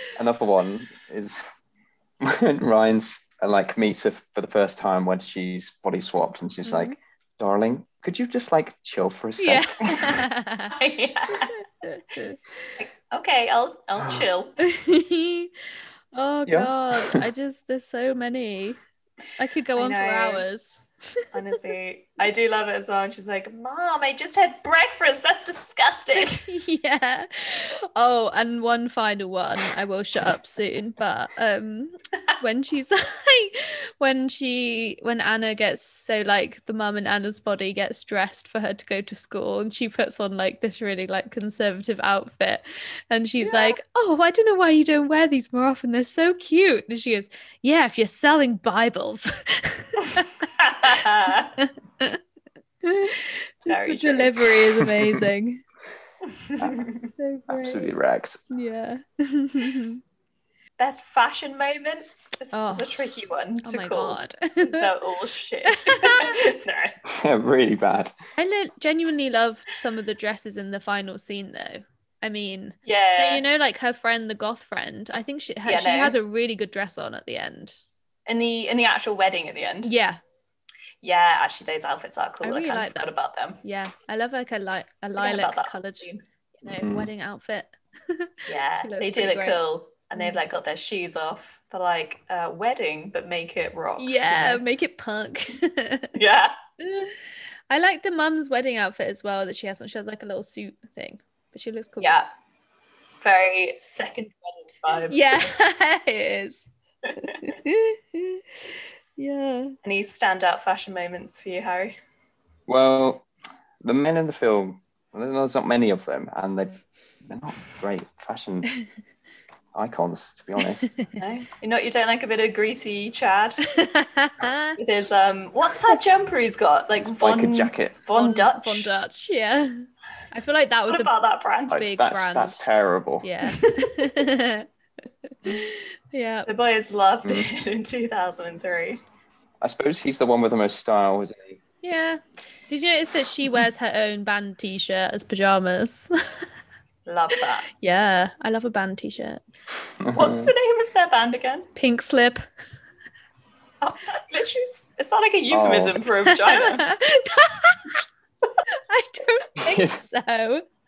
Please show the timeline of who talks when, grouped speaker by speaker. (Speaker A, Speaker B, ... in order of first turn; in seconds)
Speaker A: 0.1-1.5, 2.2-10.2, 16.4-17.2, 54.9-55.2, 57.5-58.4, 67.0-68.1, 86.7-87.1, 112.7-113.3, 113.8-118.7, 119.7-120.9, 127.2-128.0, 131.7-133.3, 137.2-137.5, 139.6-141.6, 150.0-150.5, 155.5-156.0, 159.6-159.9
Speaker B: 6.6-7.0, 9.4-10.7, 11.5-12.4, 14.6-15.5, 16.1-18.8, 19.4-21.2, 26.1-50.9, 51.6-52.2, 52.8-55.6, 57.2-57.9, 58.5-60.0, 62.5-62.9, 63.6-64.9, 65.7-66.4, 68.4-77.8, 79.8-80.2, 82.4-83.1, 83.6-86.0, 86.6-89.6, 90.1-90.4, 94.0-96.2, 96.8-97.2, 97.7-102.1, 104.9-106.6, 107.2-108.4, 109.2-109.8, 120.9-121.2, 123.7-124.8, 128.2-131.1, 131.7-132.7, 133.2-134.7, 135.3-136.5, 141.8-146.1, 147.7-149.4, 151.7-152.4, 156.2-158.0, 158.7-160.7
Speaker C: 10.7-11.6, 12.8-14.7, 19.8-20.4, 21.3-26.5, 43.4-43.8, 50.4-51.5, 53.7-54.5, 56.3-57.1, 60.8-67.0, 72.8-73.4, 75.7-76.2, 78.2-79.9, 81.0-83.6, 85.2-86.2, 88.5-94.8, 96.2-96.5, 102.0-102.3, 103.2-105.5, 109.8-111.9, 121.2-123.7, 124.8-128.9, 130.9-131.8, 133.5-134.1, 136.5-139.0, 147.1-147.7, 150.1-151.7, 153.8-156.8